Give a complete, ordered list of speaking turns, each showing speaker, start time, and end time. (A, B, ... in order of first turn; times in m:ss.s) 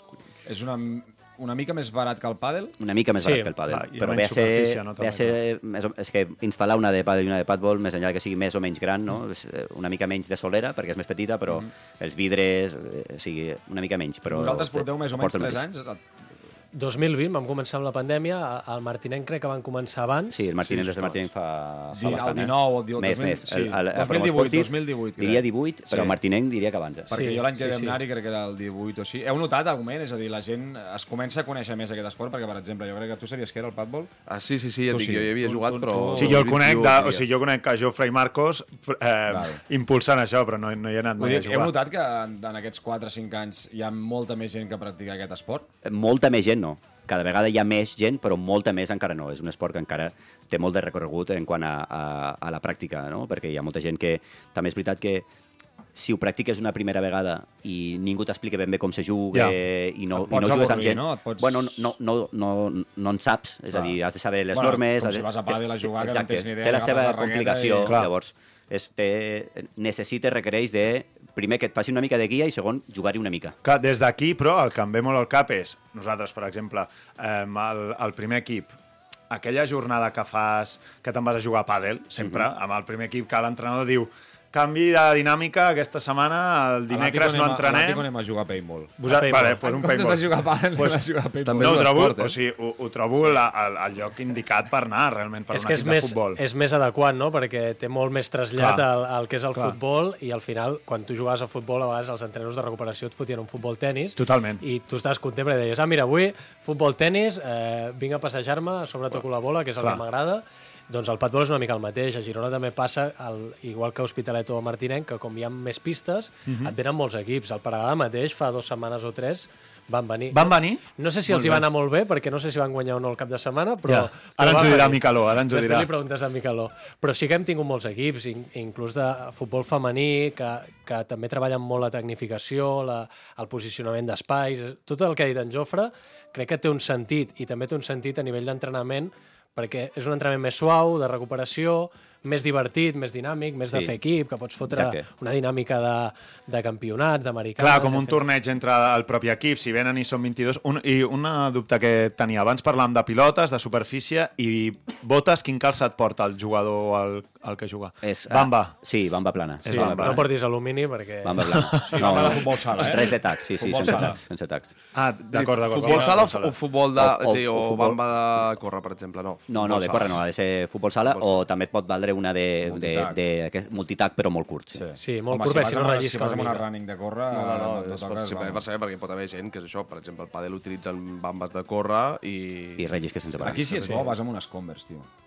0:00.4-0:02.8 A
0:02.8-0:15.6 B
0:03.2-0:03.5 C
0:03.7-0:05.4 D
0:14.3-0:16.0 A
0:16.7-0:20.4 C
0:20.3-0:27.2 B
0:20.6-0:21.2 A
0:21.9-0:26.2 A
0:27.1-0:34.1 A
0:27.1-0:28.0 C
0:34.3-0:37.3 E
0:34.9-0:36.5 A
0:36.1-0:41.8 D
0:39.3-0:39.6 A
0:41.2-0:45.7 A
0:45.8-0:55.3 B
0:55.9-1:13.6 B
1:00.1-1:01.9 A
1:04.5-1:08.0 A
1:07.8-1:08.1 D
1:13.6-1:18.7 D
1:19.3-1:28.1 D
1:26.9-1:32.0 A
1:29.0-1:36.4 D
1:29.0-1:29.6 C
1:31.4-1:32.4 E
1:35.5-2:28.2 C
1:38.6-1:38.8 D
1:44.2-1:44.6 D
1:56.5-1:56.7 D
2:00.3-2:01.6 D
2:03.8-2:05.9 D
2:24.7-2:25.0 B
2:27.6-2:38.8 D
2:38.0-2:40.2 B
2:39.6-2:40.2 D
2:39.7-2:41.6 C
2:41.2-2:44.7 B
2:41.6-2:42.1 D
2:41.8-2:44.2 A
2:44.9-2:46.5 D
2:45.3-2:50.1 E
2:47.0-2:48.0 B
2:49.5-2:54.8 B
2:51.1-2:51.4 E
2:52.6-2:53.2 A
2:54.7-2:58.6 A
2:55.0-2:56.6 C
2:57.3-3:02.9 E
3:02.8-3:04.1 B
3:03.4-3:05.1 A